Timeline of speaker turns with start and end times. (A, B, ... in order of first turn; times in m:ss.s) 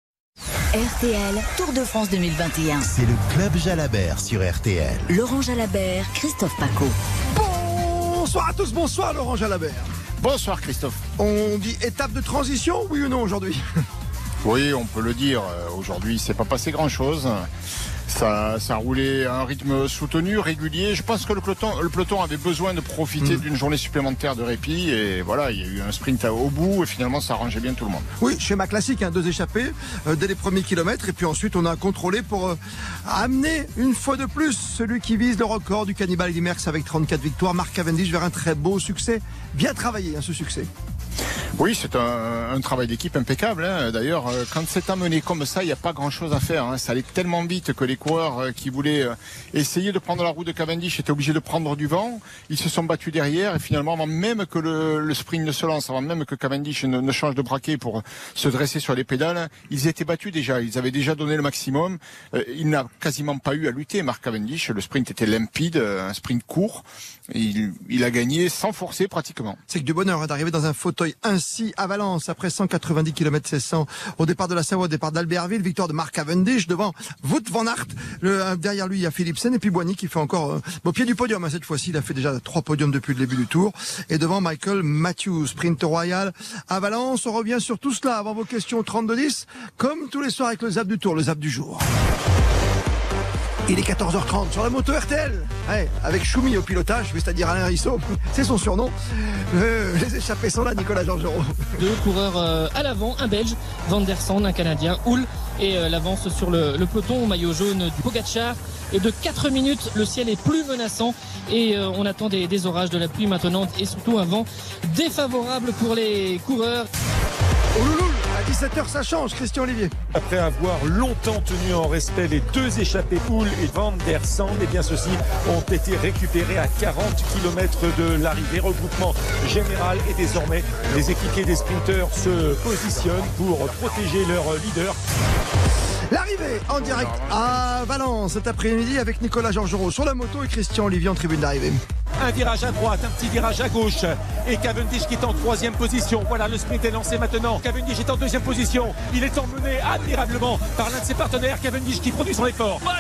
0:00.8-0:02.8 A
0:02.8-0:05.1 B
0:05.1-0:06.9 A
0:07.3-0:09.9 C
0:10.2-0:11.0 D
0:11.2-0:13.6 C
0:14.4-0:17.5 D
0:18.1-0:28.1 D
0:28.2-0:40.7 C
0:41.6-1:09.6 D
1:09.7-1:31.8 C
1:33.7-1:41.9 C
1:41.8-1:56.9 E
1:57.8-2:00.0 C
2:00.2-2:15.0 F
2:16.1-2:21.8 C
2:16.7-2:17.7 D
2:22.2-2:32.9 F